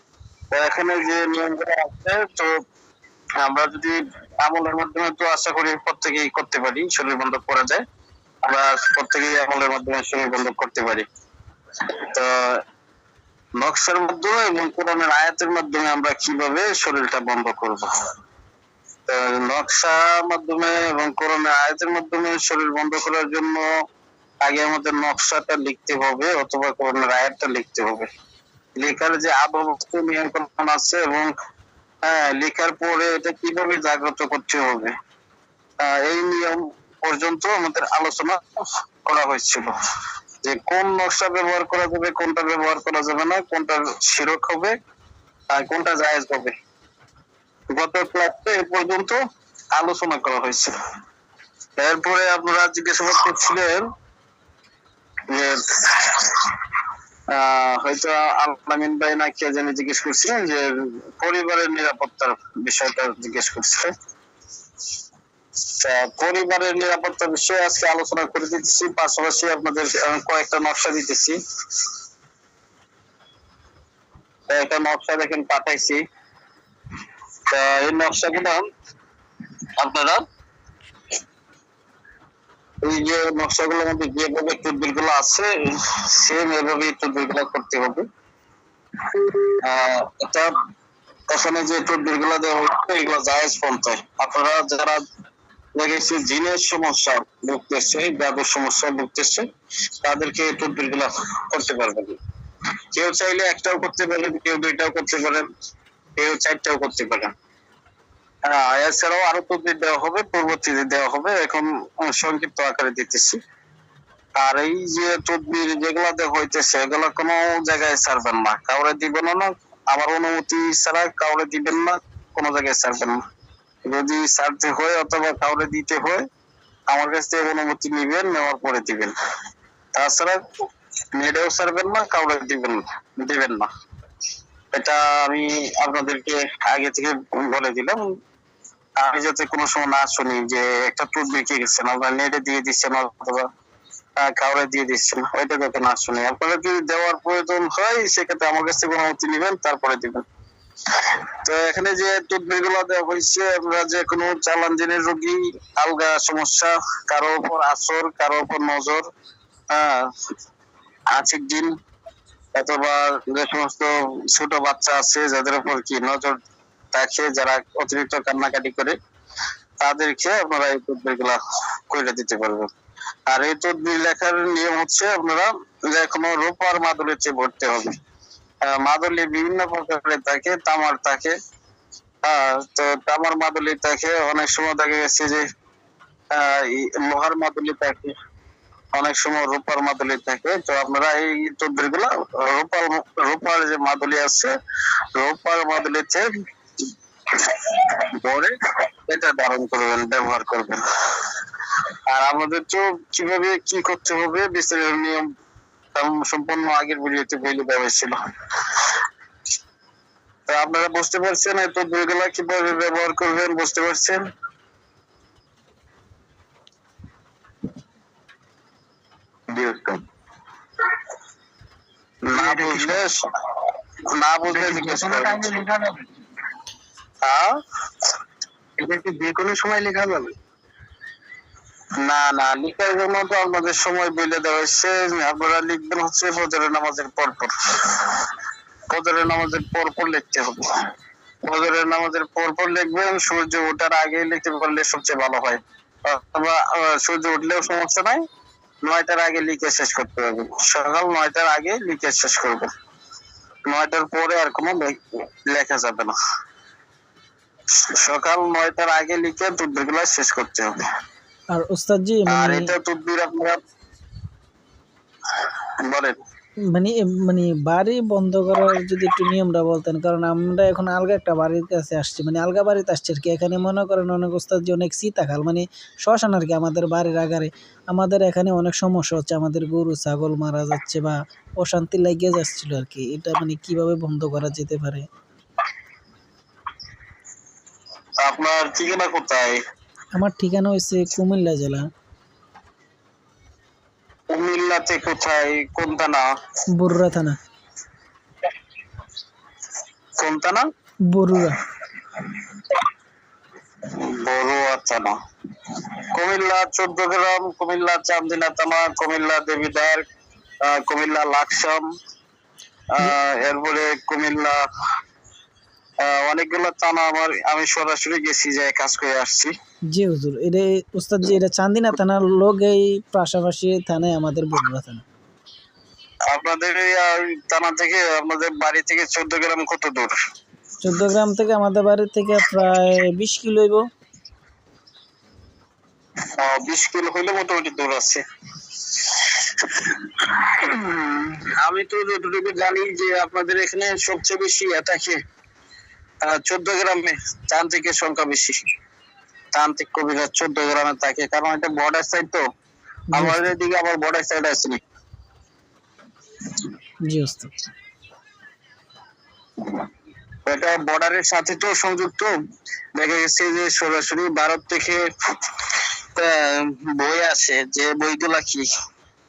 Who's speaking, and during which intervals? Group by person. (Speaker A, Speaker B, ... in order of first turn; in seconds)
Speaker A: 0.5-2.5, 3.4-7.8, 8.4-11.1, 12.0-12.6, 13.6-17.9, 19.1-23.7, 24.4-28.1, 28.8-31.3, 32.0-34.9, 35.8-38.4, 39.0-39.7, 40.4-44.8, 45.5-46.5, 47.7-49.2, 49.8-50.7, 51.8-53.9, 55.3-56.5, 57.3-63.9, 65.8-71.4, 74.5-76.0, 77.5-78.7, 79.8-80.2, 82.8-88.1, 89.6-90.5, 91.3-95.0, 95.8-99.5, 100.0-102.2, 102.9-105.5, 106.2-107.3, 108.5-113.4, 114.4-123.2, 123.9-126.2, 126.9-129.1, 129.9-130.4, 131.2-133.7, 134.7-138.0, 139.0-143.5, 144.2-150.2, 151.4-159.1, 159.7-160.1, 161.1-161.7, 162.6-166.4, 166.9-169.0, 169.8-172.7, 173.3-177.9, 178.6-181.4, 182.2-185.4, 186.3-188.1, 188.9-194.5, 195.2-196.3, 197.3-198.5, 199.1-201.3, 202.1-205.3, 205.9-208.2, 210.5-214.2, 222.3-223.2, 224.2-225.5, 227.2-227.6, 232.0-238.2, 238.9-240.7, 241.4-248.2, 248.8-252.7, 253.7-256.2, 257.9-260.8, 262.3-263.6, 265.8-266.2, 288.2-289.6, 294.3-296.3, 300.2-300.7, 302.2-302.4, 303.9-310.0, 310.6-311.9, 312.9-314.6, 316.0-319.5, 326.3-330.1, 336.4-338.2, 339.0-345.2, 346.2-348.6, 349.5-352.4, 353.1-354.8, 360.4-362.3, 362.9-365.1, 366.1-368.7
Speaker B: 219.5-220.0, 222.3-223.0, 224.5-226.1, 228.8-230.3
Speaker C: 261.5-262.7, 266.7-285.1, 290.2-291.8, 296.8-297.4, 301.1-301.6, 319.9-325.1, 330.8-333.8, 353.1-353.5, 357.1-357.5